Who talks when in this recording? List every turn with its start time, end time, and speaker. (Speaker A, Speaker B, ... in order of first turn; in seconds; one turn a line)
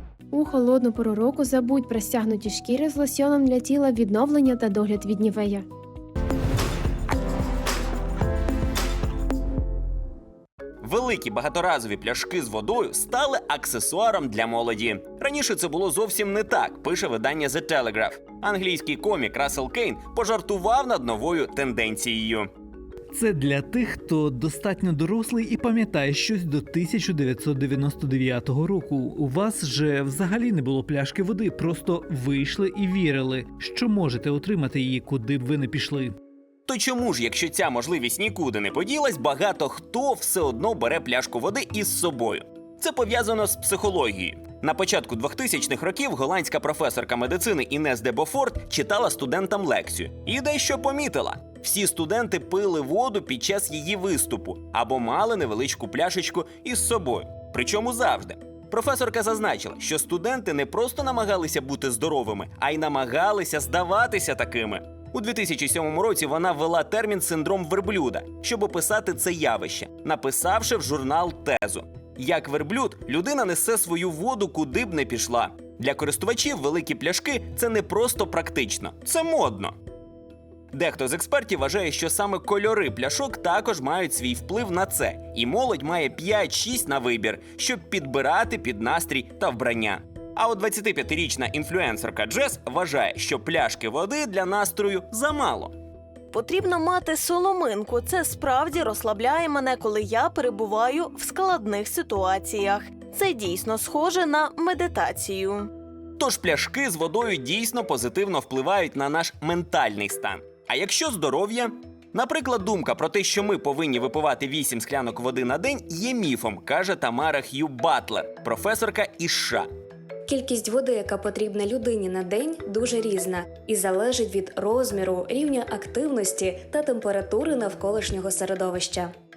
Speaker A: 0.3-5.6
Speaker B: 10.8-22.5
Speaker C: 23.1-36.1
Speaker B: 36.7-79.7
Speaker B: 80.7-95.7
Speaker D: 96.3-105.7
Speaker B: 106.2-119.7
Speaker E: 120.3-129.1